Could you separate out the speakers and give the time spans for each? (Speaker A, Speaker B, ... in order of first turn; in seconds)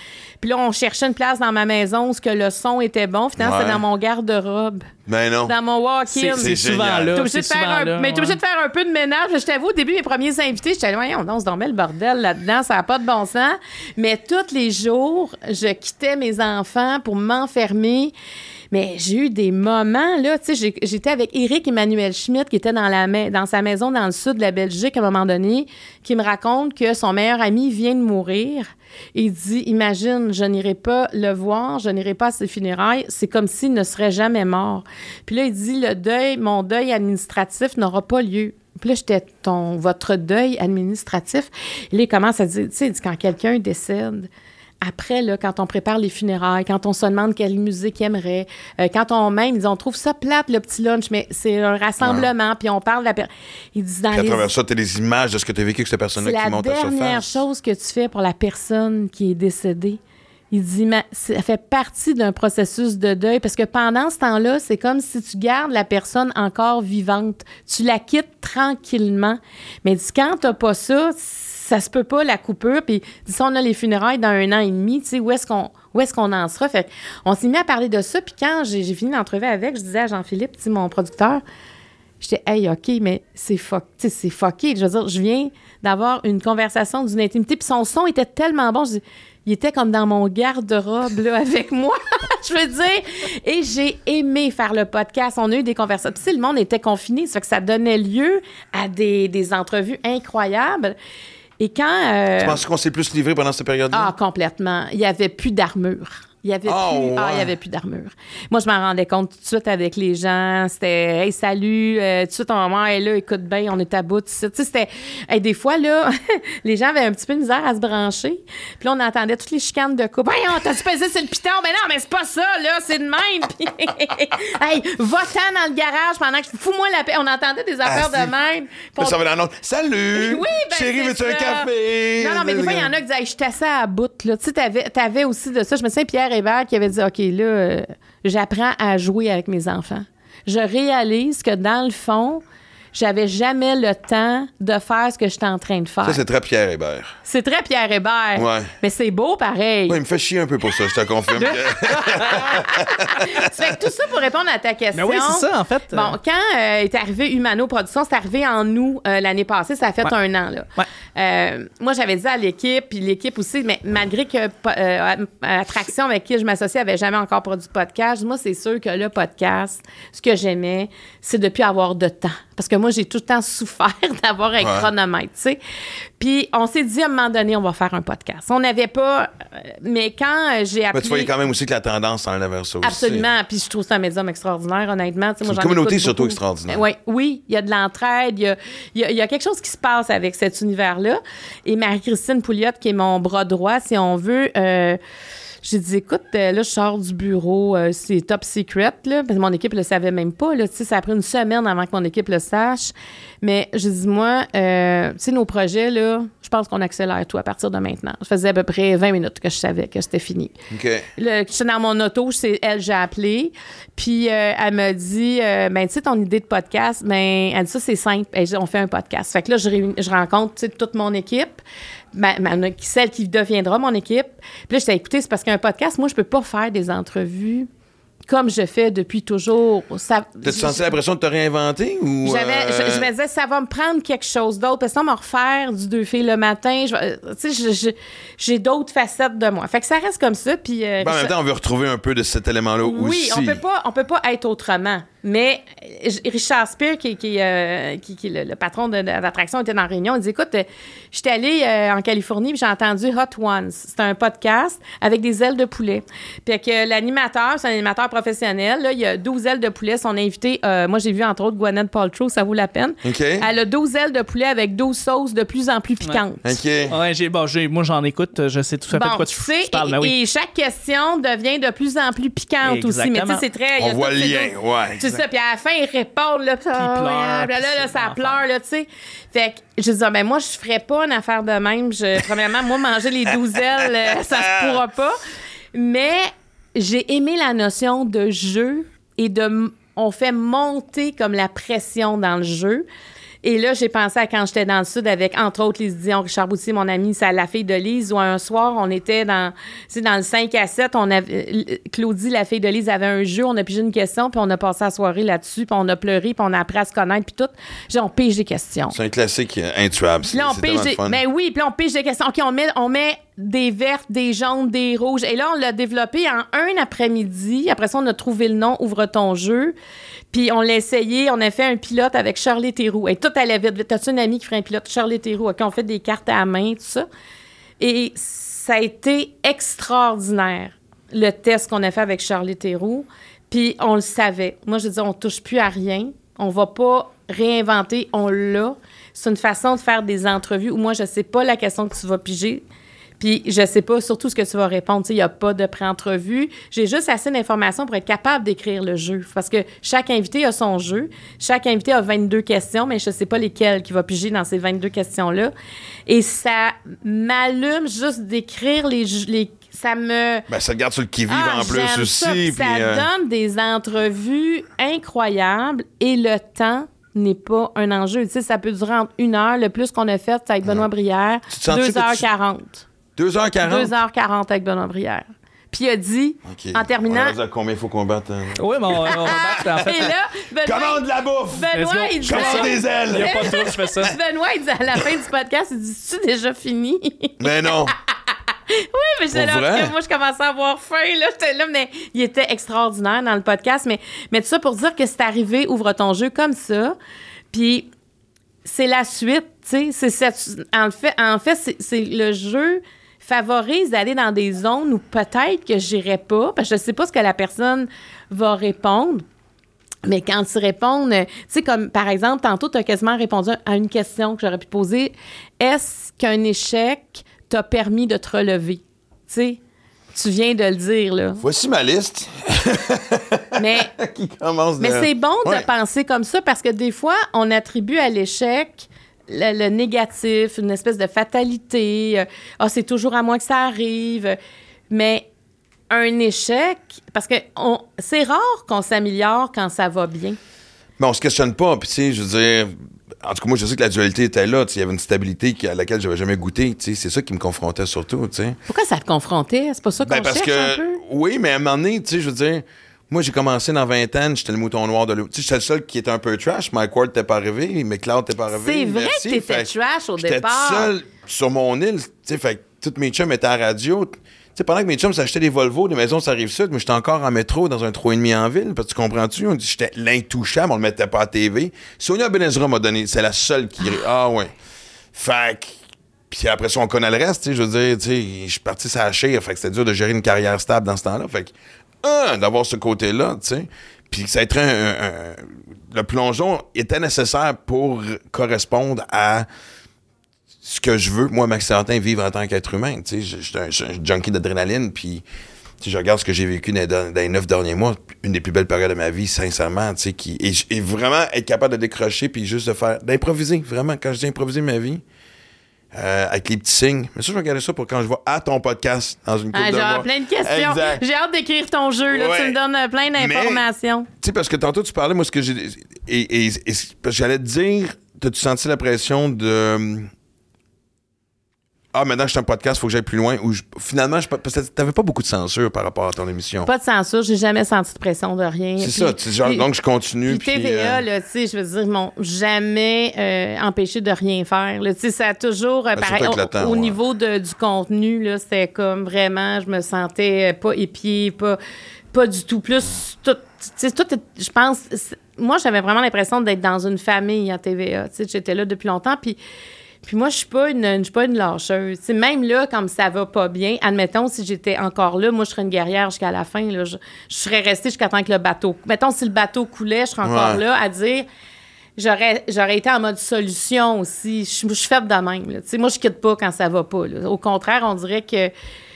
Speaker A: 0.4-4.9, 5.5-18.1, 18.7-44.3, 44.8-54.5, 56.2-60.0, 60.5-81.4, 82.2-101.0, 101.6-102.6, 103.9-129.2, 130.1-142.4, 142.9-146.2, 147.2-150.0, 151.4-175.6, 176.2-181.3, 182.8-195.0, 195.6-210.5, 211.2-221.6, 222.1-227.7, 228.3-231.0, 232.2-241.3, 242.8-266.6, 268.9-285.2, 285.7-292.9, 293.4-308.9, 310.3-319.8, 320.3-327.1, 327.8-342.6, 343.2-355.5, 356.1-360.5, 361.3-372.9, 373.6-377.4, 379.1-381.0, 381.5-387.9, 388.7-396.9, 397.5-397.9, 398.6-409.2, 410.1-419.6, 420.1-421.4, 423.6-423.9, 424.8-434.4, 434.9-435.3, 435.9-440.4, 448.7-451.0, 458.5-460.9, 509.5-514.1, 526.6-529.7, 530.3-541.6, 542.1-549.4, 550.0-561.3, 562.0-568.5
Speaker B: 3.4-3.8, 5.1-5.5, 6.4-7.2, 52.0-52.3, 54.1-57.4, 102.4-104.1, 106.7-107.5, 127.8-128.3, 129.0-132.9, 146.0-147.1, 148.4-148.7, 149.9-153.5, 174.6-174.9, 180.9-183.3, 185.4-186.8, 210.7-211.1, 230.4-233.1, 241.0-243.6, 263.0-263.5, 266.4-267.0, 273.8-275.0, 283.5-284.8, 308.9-311.2, 360.5-363.1, 371.5-372.2, 373.2-373.9, 376.5-380.1, 380.6-384.1, 387.4-387.9, 389.3-389.9, 421.4-425.7, 441.0-448.6, 450.0-474.5, 475.1-475.8, 476.3-489.5, 490.6-495.2, 495.8-505.0, 505.9-511.0, 512.1-512.6, 513.1-513.6, 514.2-520.1, 521.9-526.7, 528.8-531.0, 536.0-537.0, 560.2-560.6
Speaker C: 6.1-8.4, 154.9-156.1, 266.9-270.1, 272.6-273.4, 276.8-278.4, 378.6-380.1, 381.7-384.1